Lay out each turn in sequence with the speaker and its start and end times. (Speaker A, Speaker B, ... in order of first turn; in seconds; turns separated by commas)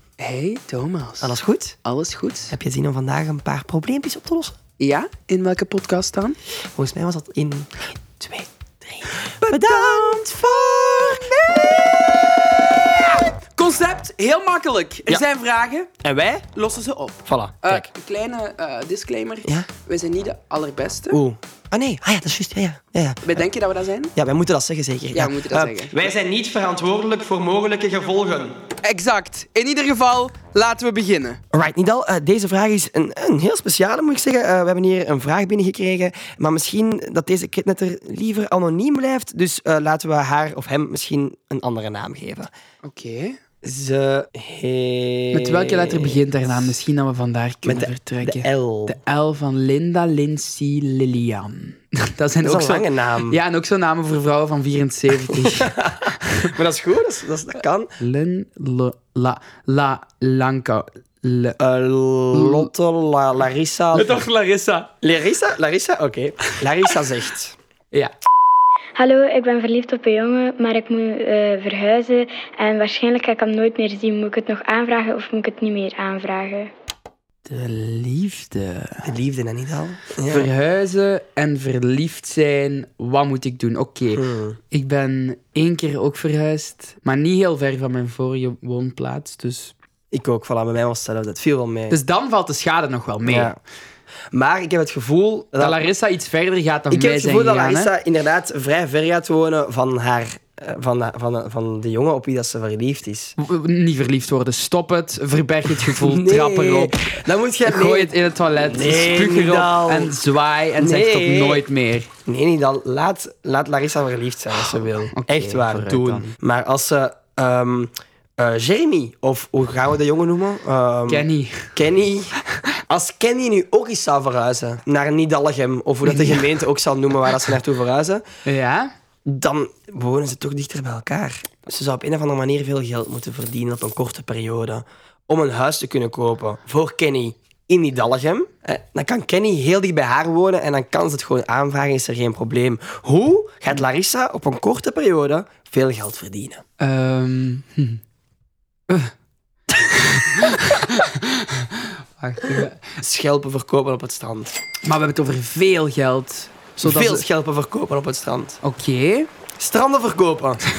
Speaker A: 0.2-2.5, Speaker B: 1.2-1.8, Speaker B: 2.5-4.6, Speaker A: 4.8-6.4, Speaker B: 6.8-7.7, Speaker B: 8.2-12.3, Speaker A: 9.4-15.9, Speaker B: 16.0-16.5, Speaker A: 16.5-21.2, Speaker B: 17.3-17.9, Speaker B: 21.1-23.4, Speaker A: 23.2-24.1, Speaker B: 24.1-28.6, Speaker A: 25.1-26.1, Speaker A: 28.8-31.4, Speaker B: 31.5-42.5, Speaker A: 42.9-43.4, Speaker B: 43.6-46.8, Speaker A: 45.3-55.7, Speaker B: 47.6-49.0, Speaker B: 52.4-53.4, Speaker B: 55.2-57.9, Speaker A: 58.0-61.6, Speaker B: 61.6-64.3, Speaker A: 62.3-62.7, Speaker A: 63.9-64.9, Speaker B: 65.0-67.6, Speaker C: 69.0-76.7, Speaker A: 77.5-79.1, Speaker B: 79.0-80.5, Speaker A: 80.3-89.7, Speaker B: 84.1-84.6, Speaker B: 90.1-92.0, Speaker A: 91.9-93.6, Speaker B: 93.2-93.6, Speaker B: 94.3-95.8, Speaker A: 95.6-97.9, Speaker B: 96.9-103.4, Speaker A: 103.4-112.1, Speaker B: 105.8-110.2, Speaker B: 110.8-111.6, Speaker B: 112.3-122.4, Speaker A: 114.5-116.3, Speaker A: 121.1-121.8, Speaker B: 122.9-128.2, Speaker A: 126.0-126.6, Speaker A: 128.4-128.9, Speaker B: 129.3-146.6, Speaker A: 146.8-148.0, Speaker A: 149.8-151.7, Speaker A: 152.2-152.8, Speaker B: 153.0-154.6, Speaker A: 154.8-157.2, Speaker B: 156.8-158.6, Speaker A: 158.6-159.3, Speaker B: 159.6-160.6